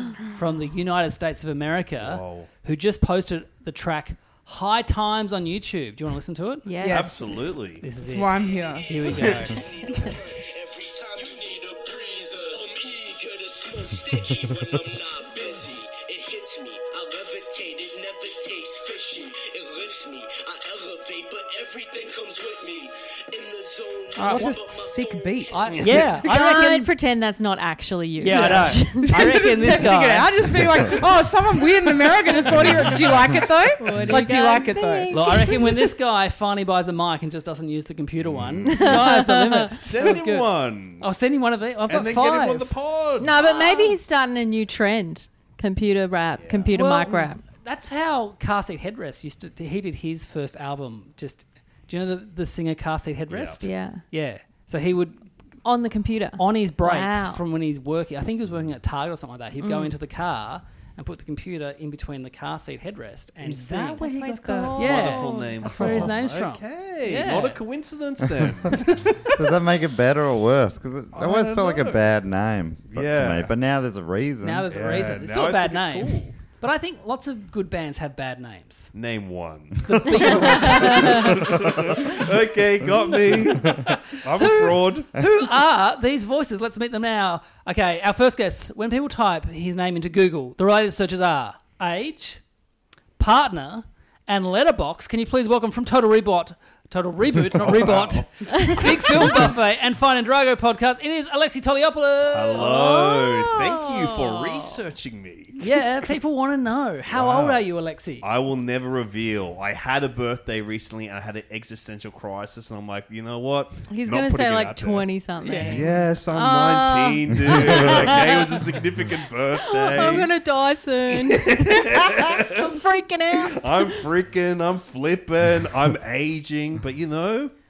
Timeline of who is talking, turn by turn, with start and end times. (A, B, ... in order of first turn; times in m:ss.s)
0:00.2-0:06.7 A
0:02.0-0:02.5 B
0:06.6-0:07.2 C
0:06.8-0:07.4 D
0:06.9-0:07.8 B
0:07.8-0:08.3 A
0:08.0-0:09.5 D
0:08.3-0:25.8 E
0:08.9-0:09.6 A
0:09.2-0:09.4 B
0:24.2-0:26.3 D
0:25.5-0:26.9 A
0:26.2-0:29.9 C
0:28.2-0:30.3 A
0:28.3-0:35.4 D
0:32.5-0:33.2 B
0:33.7-0:35.9 C
0:35.1-0:42.7 A
0:38.6-0:39.7 C
0:39.8-0:41.1 B
0:41.9-0:43.4 B
0:43.2-0:47.4 C
0:46.4-0:46.7 B
0:46.7-0:55.2 A
0:53.3-0:53.6 B
0:53.6-0:54.0 C
0:55.6-0:57.4 C
0:56.4-1:04.0 A
0:59.6-0:59.9 C
1:03.4-1:09.0 B
1:03.9-1:05.9 C
1:04.7-1:07.6 A
1:05.8-1:06.1 F
1:09.3-1:14.7 F
1:11.1-1:12.0 B
1:12.9-1:13.5 B
1:14.4-1:18.9 A
1:14.7-1:16.3 B
1:18.9-1:25.1 B
1:19.9-1:21.3 A
1:20.1-1:21.4 C
1:21.5-1:21.8 F
1:23.7-1:32.4 A
1:33.2-1:42.7 A
1:37.5-1:39.4 B
1:38.5-1:38.8 C
1:42.3-1:45.6 B
1:42.6-1:44.7 C
1:45.6-1:48.3 A
1:47.1-1:47.6 B
1:48.2-1:55.0 B
1:53.9-1:58.7 C
1:55.4-1:55.9 A
1:55.7-2:00.3 B
1:59.6-2:04.0 C
2:01.1-2:02.8 B
2:03.3-2:07.5 B